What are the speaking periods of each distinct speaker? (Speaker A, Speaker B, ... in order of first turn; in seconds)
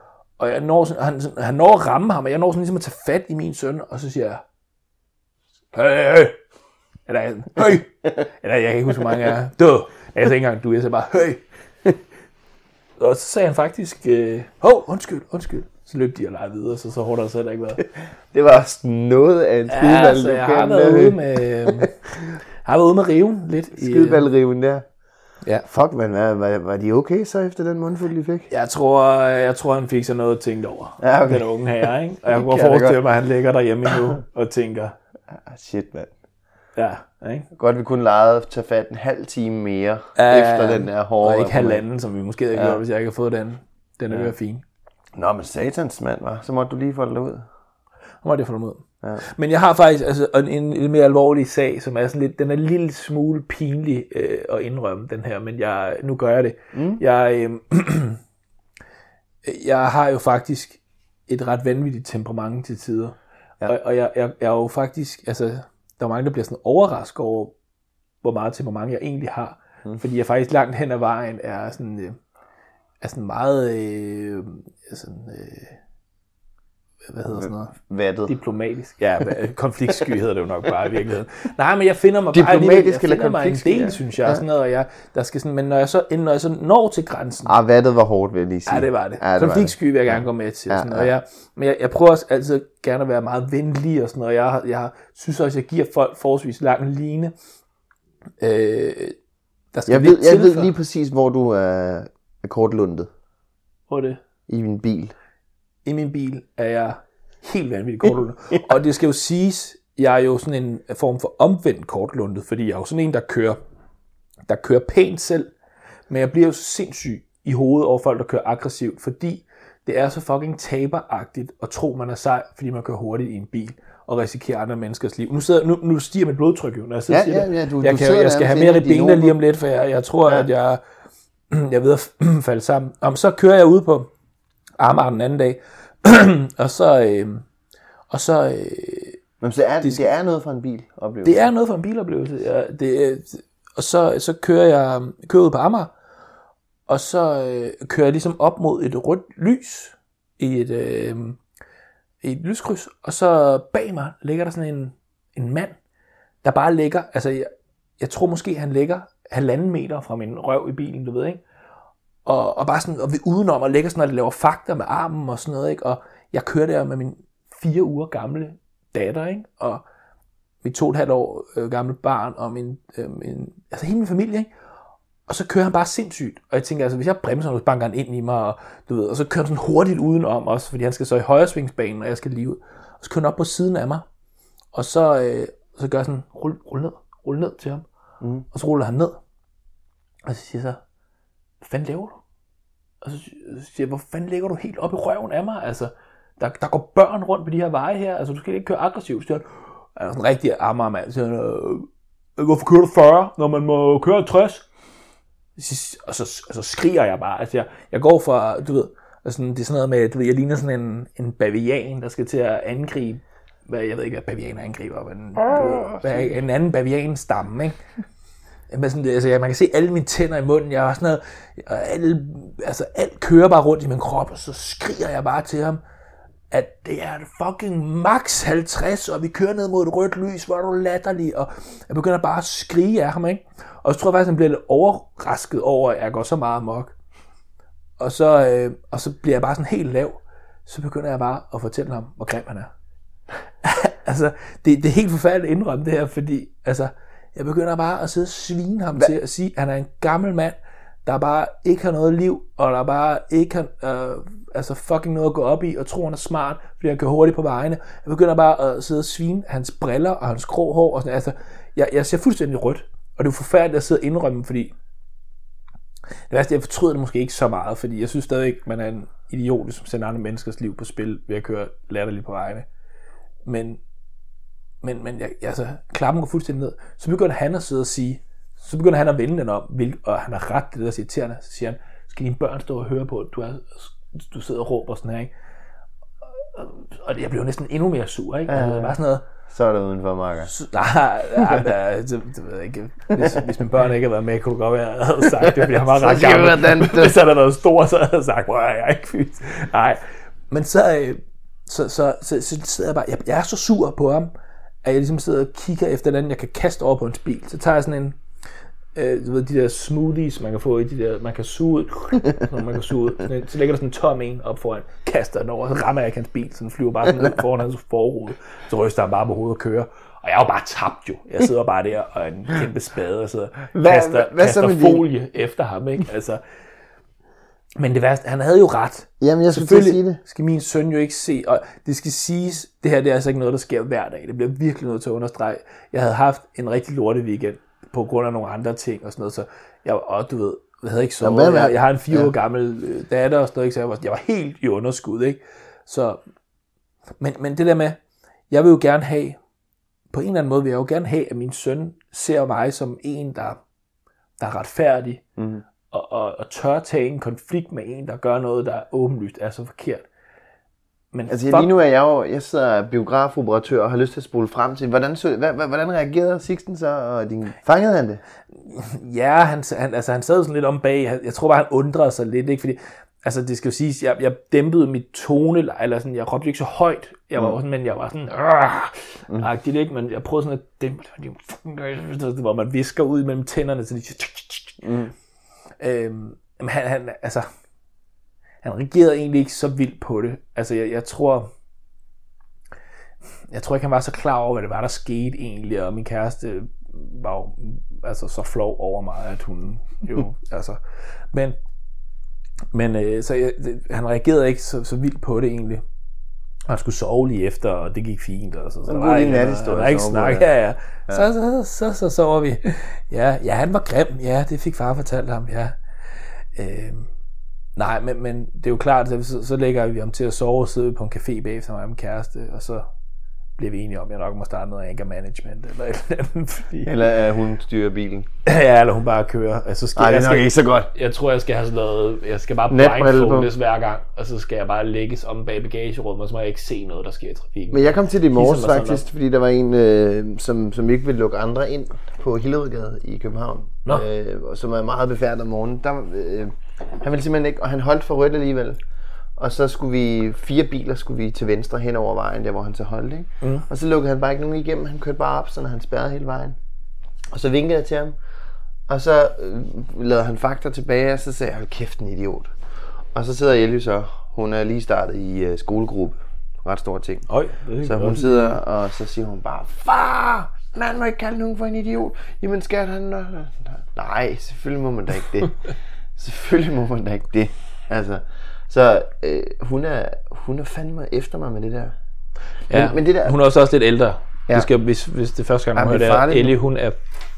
Speaker A: 0.4-4.4, 5.7-6.4, 7.1-11.4, 13.0-17.8, 19.7-21.9, 22.6-24.2, 28.5-35.0, 36.8-37.5, 40.1-44.6, 48.2-58.2, 59.4-67.5, 68.2-72.2, 73.0-75.8, 77.1-87.5, 88.7-97.3, 98.4-99.2, 99.7-100.7, 103.9-104.2, 105.8-113.6, 114.5-115.5, 116.1-130.8, 131.5-134.1, 134.8-137.4, 138.1-139.2, 141.2-145.9, 146.9-151.4, 152.2-155.8, 156.4-161.4, 162.2-169.8, 170.6-174.5, 175.3-184.1, 184.7-187.8, 188.5-189.2, 190.2-190.8, 191.6-192.2, 193.0-204.7, 205.6-217.8, 218.7-225.8, 226.5-236.9, 238.0-242.7, 243.6-264.7, 266.3-272.6, 273.4-273.8, 274.8-285.3, 286.3-289.2, 290.5-304.3, 304.8-308.2, 308.9-326.4, 327.8-346.2, 347.2-348.0, 348.5-349.4, 350.1-353.6, 354.4-355.2, 355.9-360.1, 361.1-361.7, 368.6-384.8, 385.8-387.5, 388.6-391.5, 393.5-400.8, 401.3-401.6, 402.7-405.8, 406.7-415.8, 416.5-417.1, 417.8-422.9, 423.6-426.9, 428.4-439.0, 467.3-468.6, 482.7-487.1
Speaker B: 18.3-21.9, 23.7-24.8, 25.6-28.5, 31.0-31.5, 32.2-33.0, 35.3-36.1, 37.5-41.8, 42.5-42.8, 45.1-47.5, 56.7-57.0, 77.3-78.3, 82.3-84.4, 87.5-91.1, 99.9-103.1, 104.5-105.1, 127.1-129.4, 139.4-141.5, 215.4-216.3, 288.5-290.5, 295.4-297.1, 323.7-325.1, 329.2-330.2, 341.2-342.3, 355.4-355.6, 361.3-368.2, 384.8-385.1, 408.9-410.5, 426.8-428.3, 429.9-430.9, 432.7-433.5, 437.7-448.8, 449.4-456.6, 457.3-458.2, 458.9-462.6, 463.1-467.3, 467.8-475.6, 476.2-481.9, 482.7-483.4, 485.7-486.6